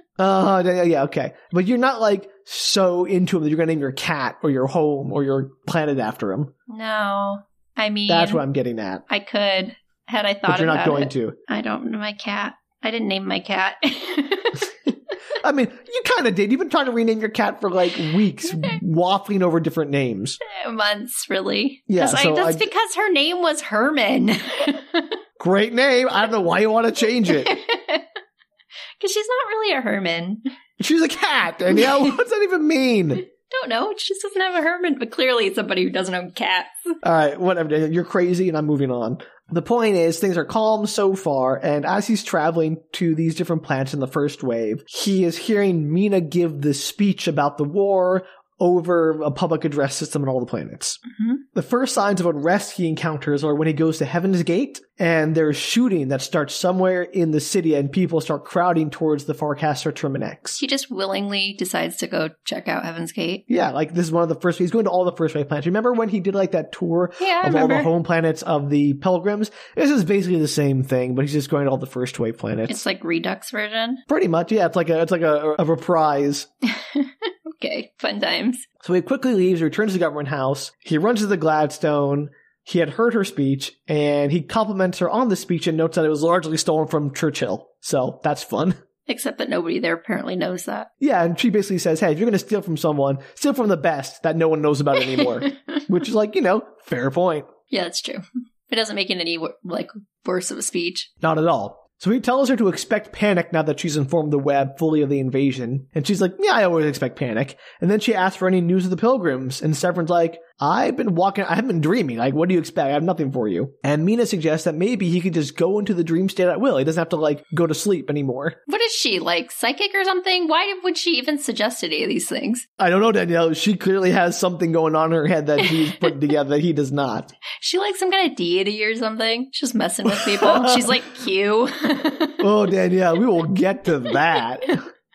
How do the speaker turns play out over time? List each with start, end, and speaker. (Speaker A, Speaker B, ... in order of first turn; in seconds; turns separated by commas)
Speaker A: 0.2-6.5, Speaker B: 6.7-8.4, Speaker A: 8.1-9.0, Speaker B: 9.1-14.7, Speaker A: 10.5-11.4, Speaker A: 15.4-20.4, Speaker B: 20.4-25.2, Speaker A: 21.9-22.7, Speaker A: 25.4-27.6, Speaker B: 27.2-28.1, Speaker B: 29.0-30.4, Speaker A: 30.8-33.2, Speaker B: 31.7-32.1, Speaker B: 33.4-36.7, Speaker A: 37.0-51.0, Speaker A: 51.5-60.6, Speaker B: 60.6-63.4, Speaker A: 63.5-72.8, Speaker B: 67.2-67.9, Speaker B: 72.7-74.0, Speaker A: 74.1-76.5, Speaker B: 76.7-78.7, Speaker A: 78.8-88.8, Speaker B: 89.1-90.9, Speaker A: 91.0-97.5, Speaker B: 95.1-95.8, Speaker B: 97.7-101.1, Speaker A: 101.2-118.6, Speaker B: 118.7-122.7, Speaker A: 122.8-127.3, Speaker B: 125.6-126.1, Speaker B: 127.6-132.5, Speaker A: 130.1-131.0, Speaker A: 132.4-134.8